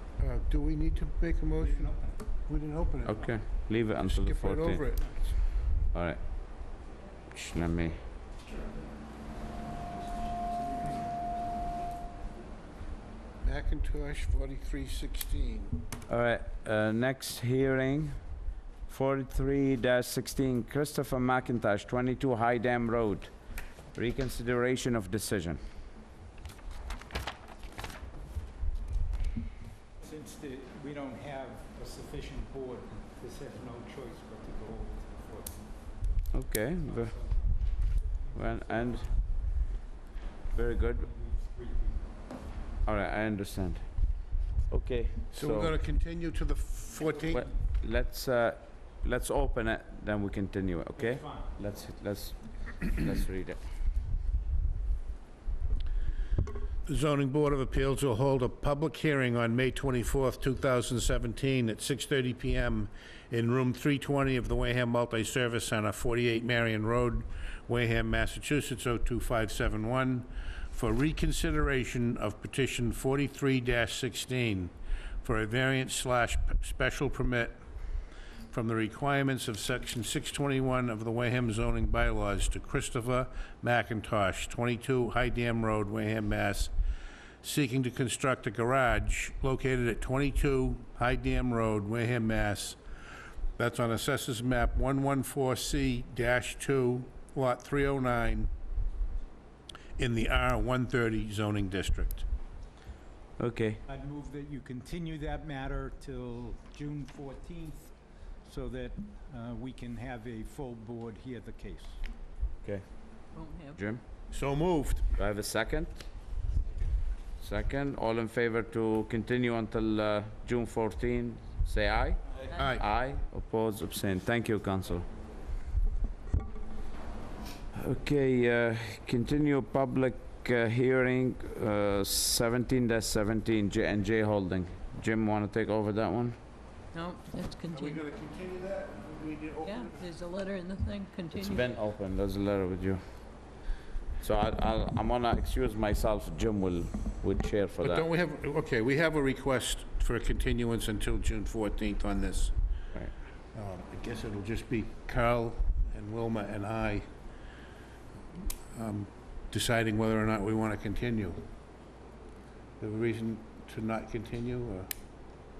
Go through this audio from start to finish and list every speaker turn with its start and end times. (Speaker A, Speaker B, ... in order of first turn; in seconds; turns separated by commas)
Speaker A: 0.2-1.9, Speaker B: 1.7-2.2, Speaker A: 2.4-3.3, Speaker C: 3.1-4.8, Speaker A: 4.0-5.3, Speaker C: 5.9-6.2, Speaker C: 7.3-8.0, Speaker A: 13.4-15.8, Speaker C: 16.1-18.2, Speaker C: 18.9-23.3, Speaker C: 23.9-25.6, Speaker B: 30.0-35.6, Speaker C: 36.3-37.2, Speaker B: 37.1-37.6, Speaker B: 38.3-39.1, Speaker C: 38.3-39.1, Speaker C: 40.5-41.1, Speaker B: 41.0-42.1, Speaker C: 42.8-43.8, Speaker C: 44.7-45.7, Speaker A: 45.3-47.5, Speaker C: 47.3-53.6, Speaker B: 51.0-51.5, Speaker A: 56.9-77.5, Speaker A: 78.5-86.7, Speaker A: 87.4-92.8, Speaker A: 93.6-98.5, Speaker A: 100.0-102.2, Speaker C: 103.4-103.8, Speaker B: 103.9-107.9, Speaker B: 108.4-112.0, Speaker D: 113.3-113.8, Speaker C: 113.8-114.0, Speaker A: 114.3-115.1, Speaker C: 115.2-116.0, Speaker C: 117.4-125.1, Speaker A: 122.5-122.8, Speaker C: 127.7-136.3, Speaker D: 136.9-138.0, Speaker A: 137.7-140.1, Speaker D: 139.6-141.7, Speaker C: 141.3-143.0, Speaker C: 144.2-148.0, Speaker A: 147.8-152.5, Speaker A: 153.5-157.1, Speaker A: 158.7-161.4, Speaker A: 162.8-164.9